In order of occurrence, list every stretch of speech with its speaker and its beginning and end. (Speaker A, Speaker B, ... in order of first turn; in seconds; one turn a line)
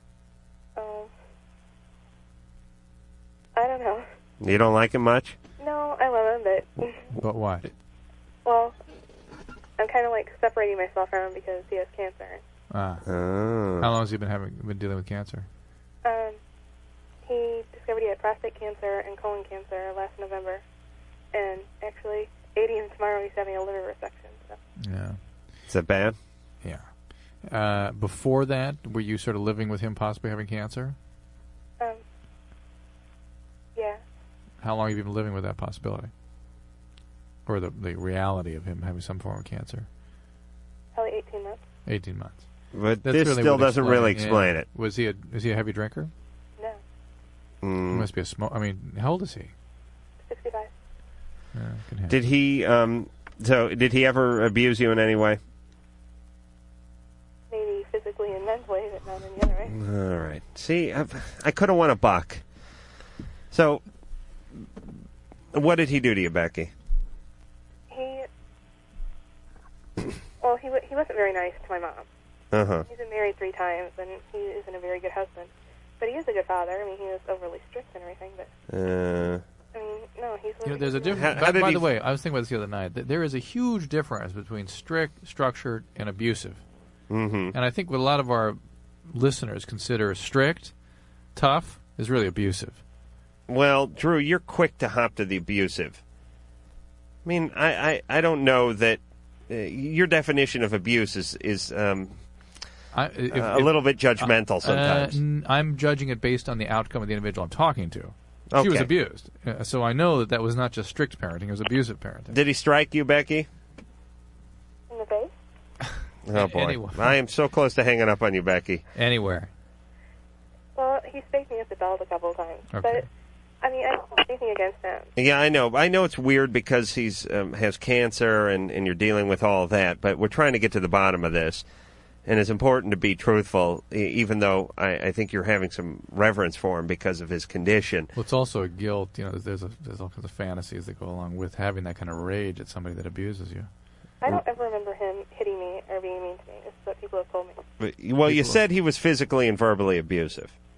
Speaker A: 0.8-1.1
Speaker A: 3.5-4.0
Speaker B: 4.4-5.4
Speaker A: 5.6-7.1
Speaker C: 7.2-7.7
Speaker A: 8.4-8.7
Speaker A: 9.8-12.4
Speaker C: 12.7-13.0
Speaker B: 13.1-13.9
Speaker C: 13.8-15.5
Speaker A: 16.0-16.4
Speaker A: 17.2-20.6
Speaker A: 21.3-24.6
Speaker C: 24.8-25.2
Speaker B: 25.7-26.1
Speaker C: 26.6-26.9
Speaker C: 27.4-30.9
Speaker C: 34.6-36.1
Speaker C: 37.5-39.9
Speaker A: 40.9-41.6
Speaker C: 41.9-42.4
Speaker B: 42.7-44.7
Speaker C: 43.0-46.1
Speaker B: 47.6-48.1
Speaker C: 47.9-49.5
Speaker A: 50.2-50.7
Speaker C: 51.5-52.1
Speaker B: 52.1-55.4
Speaker A: 57.5-59.7
Speaker B: 59.7-62.4
Speaker B: 63.5-63.8
Speaker B: 65.5-66.7
Speaker A: 67.9-68.3
Speaker A: 70.4-72.0
Speaker B: 72.5-72.8
Speaker A: 72.9-78.5
Speaker B: 78.7-79.4
Speaker A: 79.7-81.2
Speaker C: 80.7-86.6
Speaker B: 81.1-81.9
Speaker B: 87.1-87.5
Speaker C: 87.5-90.7
Speaker C: 91.3-92.8
Speaker B: 93.5-96.0
Speaker B: 97.2-102.2
Speaker C: 102.9-112.3
Speaker B: 103.3-105.2
Speaker B: 108.5-108.9
Speaker B: 112.3-113.5
Speaker A: 114.9-115.3
Speaker B: 116.2-118.8
Speaker C: 116.3-117.2
Speaker C: 119.0-119.5
Speaker A: 120.8-123.1
Speaker C: 122.7-123.0
Speaker A: 123.6-125.1
Speaker B: 125.2-131.6
Speaker B: 132.2-138.1
Speaker C: 138.2-143.7
Speaker A: 144.2-147.6
Speaker B: 147.8-150.5
Speaker C: 148.2-148.6